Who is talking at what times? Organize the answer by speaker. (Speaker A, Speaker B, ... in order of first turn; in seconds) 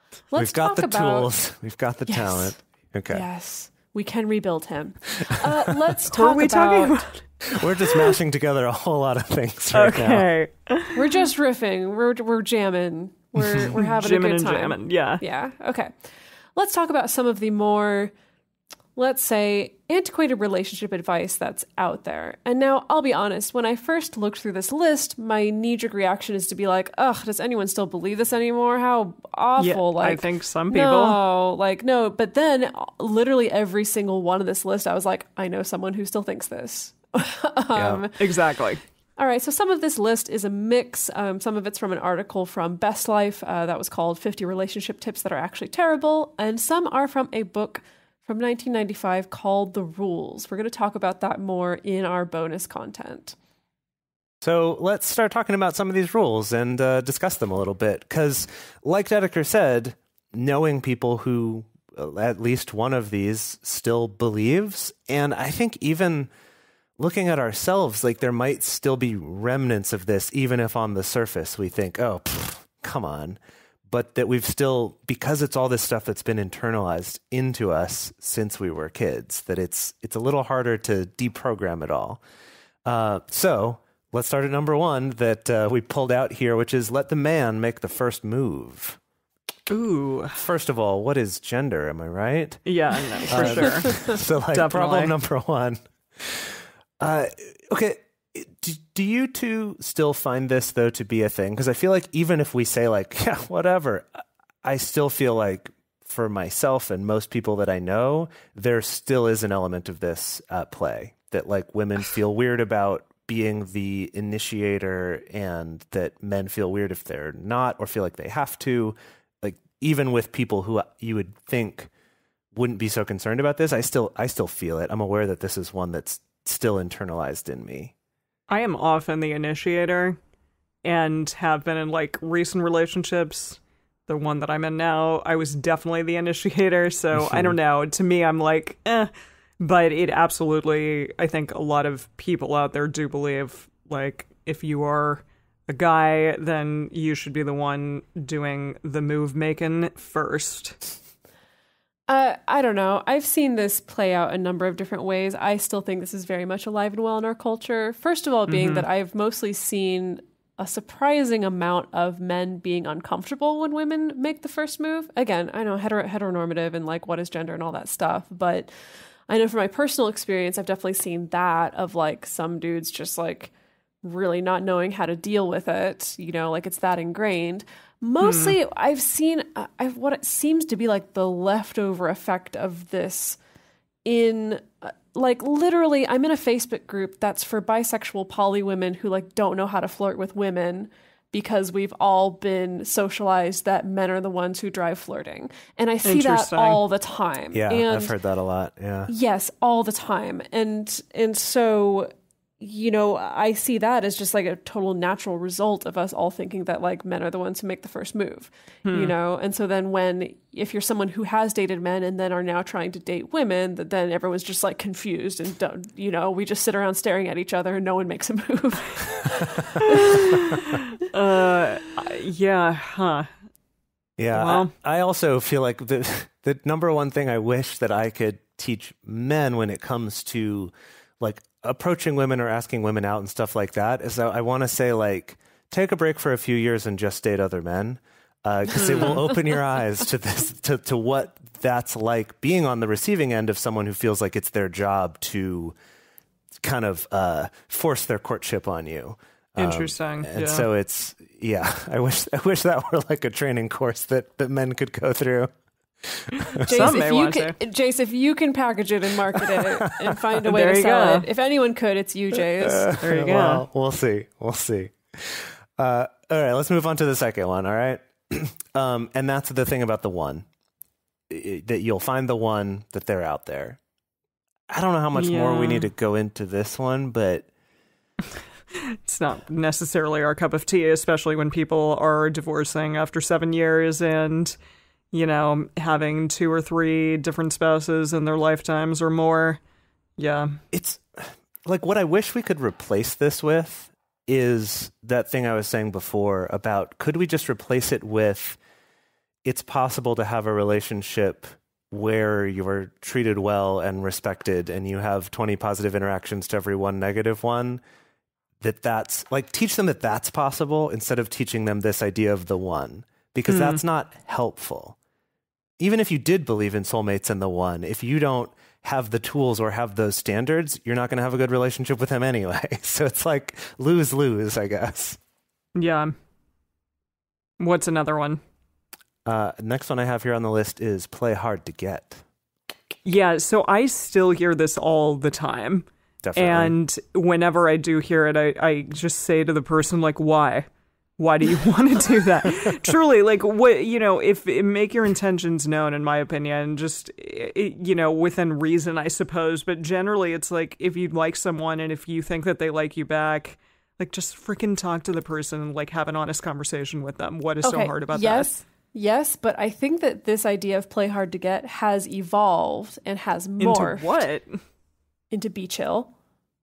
Speaker A: 0.3-1.3, 2.1-2.5, 3.1-7.1, 10.9-15.9, 16.6-18.1, 18.9-38.3, 39.2-53.4, 93.3-94.1, 152.1-168.7, 169.3-173.5, 174.0-183.4, 184.0-198.1, 199.1-220.2, 256.6-262.9, 357.6-364.2, 365.3-366.1
Speaker B: 0.3-3.2, 7.5-10.3, 37.7-38.0, 54.4-66.3, 67.0-82.2, 82.8-89.0, 90.3-92.6, 93.3-104.1, 104.6-121.9, 122.5-127.9, 137.1-137.5, 197.5-199.1, 224.2-245.8, 246.6-255.5, 256.0-256.3, 262.6-270.4, 271.3-273.8, 274.7-277.5, 290.7-298.6, 299.4-307.8, 308.6-314.9, 315.8-325.2, 329.2-332.2, 336.2-336.7
Speaker C: 6.1-7.2, 9.7-11.0, 13.6-15.2, 29.6-31.2, 38.2-38.8, 89.7-90.4, 92.7-95.1, 128.5-130.2, 130.8-150.8, 158.5-158.8, 178.2-178.6, 196.0-196.8, 208.8-209.1, 219.8-223.3, 224.3-224.7, 238.8-239.2, 249.6-250.7, 256.6-257.6, 260.4-261.2, 263.0-263.6, 275.1-275.9, 279.0-284.6, 285.1-289.6, 290.2-290.6, 313.5-313.8, 325.7-326.1, 327.6-328.4, 333.0-340.7, 341.2-358.5, 363.6-364.6